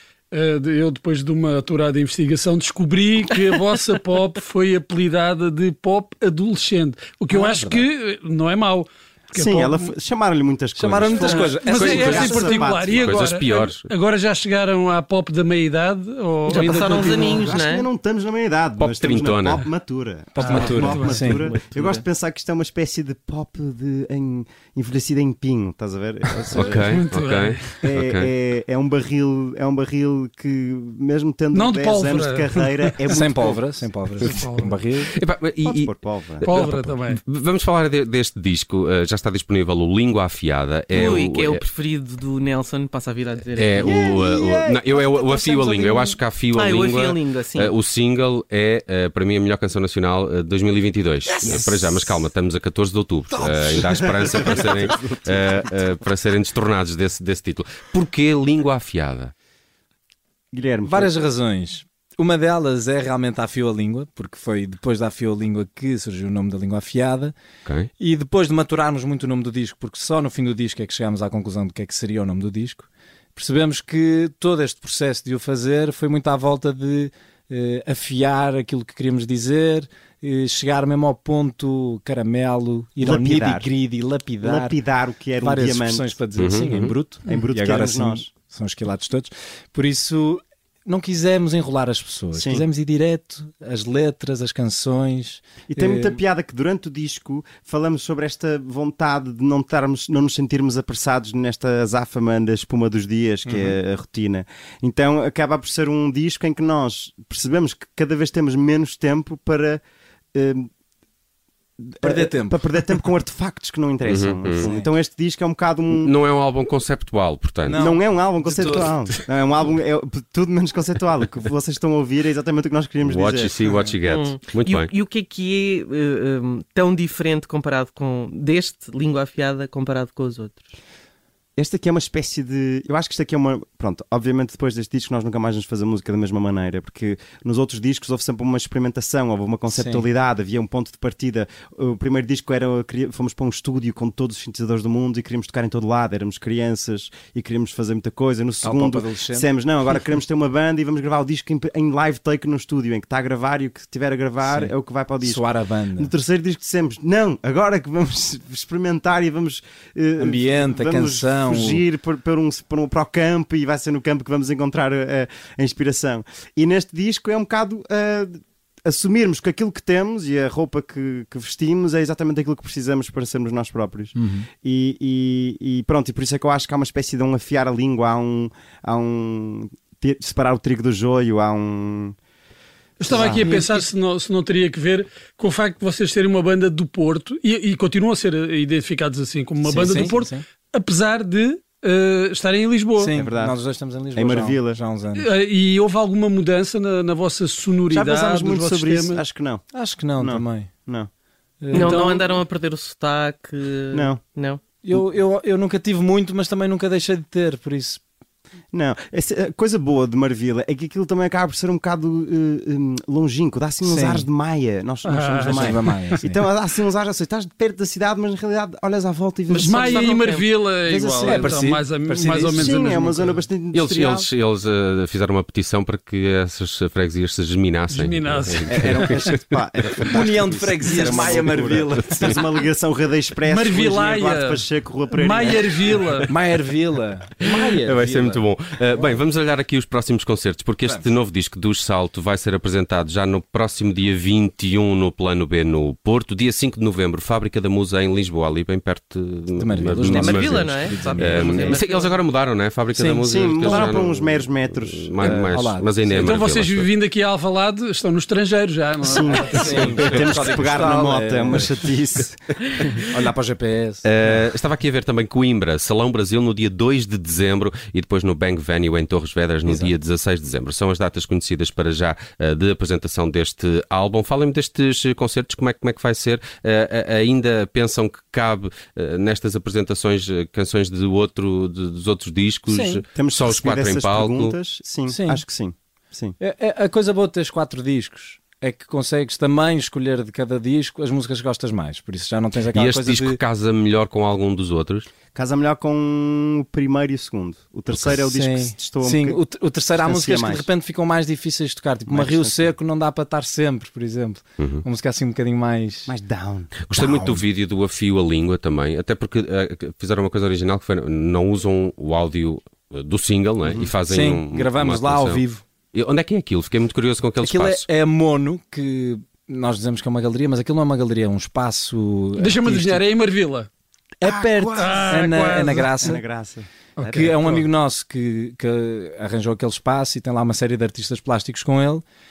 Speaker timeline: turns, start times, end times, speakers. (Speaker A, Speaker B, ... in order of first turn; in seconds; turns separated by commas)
Speaker A: 0.3-9.9, Speaker B: 7.3-7.8, Speaker C: 9.3-13.2, Speaker B: 10.7-12.7, Speaker A: 11.2-17.5, Speaker D: 11.8-12.2, Speaker D: 12.9-13.9, Speaker E: 16.5-17.9, Speaker C: 17.0-27.0, Speaker D: 18.8-19.6, Speaker B: 20.3-21.5, Speaker A: 20.4-21.3, Speaker E: 20.5-22.0, Speaker D: 26.6-28.3, Speaker A: 26.6-27.8, Speaker C: 27.8-33.7, Speaker A: 31.5-33.0, Speaker B: 33.1-35.1, Speaker A: 34.3-34.7, Speaker D: 35.1-41.6, Speaker C: 35.6-36.5, Speaker A: 36.4-37.2, Speaker B: 36.5-37.0, Speaker E: 40.9-44.0, Speaker D: 43.5-59.3, Speaker C: 43.8-46.1, Speaker E: 45.5-47.7, Speaker C: 51.4-51.8, Speaker C: 53.4-55.6, Speaker C: 60.5-61.1, Speaker B: 60.8-67.3, Speaker B: 68.0-84.8, Speaker C: 83.0-83.7, Speaker C: 84.4-86.2, Speaker B: 85.4-96.2, Speaker D: 86.3-86.9, Speaker C: 87.2-88.3, Speaker C: 92.3-92.7, Speaker C: 95.7-109.8, Speaker B: 103.5-103.8, Speaker C: 110.3-110.7, Speaker C: 111.8-116.1, Speaker B: 112.0-112.6, Speaker D: 114.0-114.7, Speaker B: 114.6-114.9, Speaker D: 115.9-117.8, Speaker B: 117.7-119.0, Speaker C: 117.7-123.8, Speaker D: 123.0-124.9, Speaker E: 124.1-130.8, Speaker C: 131.6-155.4, Speaker B: 139.7-140.0, Speaker B: 148.6-149.5, Speaker B: 154.4-156.1, Speaker C: 156.0-182.2, Speaker B: 160.2-161.8, Speaker B: 174.2-174.5, Speaker A: 183.0-193.1, Speaker B: 183.1-183.8, Speaker C: 183.1-183.6, Speaker B: 189.6-190.4, Speaker B: 192.9-195.3, Speaker C: 193.1-193.6, Speaker C: 194.1-194.8, Speaker A: 195.1-199.2, Speaker C: 197.9-199.6, Speaker B: 199.7-200.7, Speaker C: 200.2-201.1, Speaker B: 201.6-202.0, Speaker E: 201.7-204.6, Speaker A: 201.8-202.4, Speaker C: 203.9-204.2, Speaker B: 204.8-208.0, Speaker C: 208.7-220.2, Speaker B: 213.8-214.3, Speaker A: 215.0-215.8, Speaker B: 215.5-216.4, Speaker E: 219.5-220.5, Speaker A: 219.5-223.4, Speaker C: 220.8-221.6, Speaker B: 221.2-222.8, Speaker C: 222.5-224.3, Speaker D: 223.7-229.3, Speaker A: 227.9-229.3, Speaker C: 228.7-235.8, Speaker B: 230.1-232.4, Speaker A: 233.4-236.3, Speaker B: 236.3-237.4, Speaker C: 237.4-238.4, Speaker D: 237.5-256.9, Speaker B: 249.5-251.8, Speaker E: 249.9-252.2, Speaker B: 252.9-254.0, Speaker C: 253.2-255.4, Speaker B: 255.2-256.3, Speaker A: 256.1-260.2, Speaker C: 259.0-262.7, Speaker B: 259.1-261.9, Speaker D: 259.8-260.3, Speaker B: 263.0-264.5, Speaker D: 264.0-284.6, Speaker B: 269.6-269.9, Speaker B: 282.7-283.0, Speaker C: 283.1-286.4, Speaker B: 285.1-285.4, Speaker B: 286.4-293.4, Speaker D: 292.7-295.1, Speaker C: 295.3-300.7, Speaker B: 298.2-306.1, Speaker C: 302.1-302.7, Speaker D: 304.6-304.8, Speaker C: 306.1-307.4, Speaker D: 306.8-317.9, Speaker C: 313.6-313.9, Speaker B: 314.1-315.6, Speaker B: 317.4-323.0, Speaker A: 322.4-323.7, Speaker B: 324.2-326.2, Speaker C: 324.2-326.7, Speaker A: 324.8-326.1, Speaker A: 327.0-327.6, Speaker B: 327.1-332.0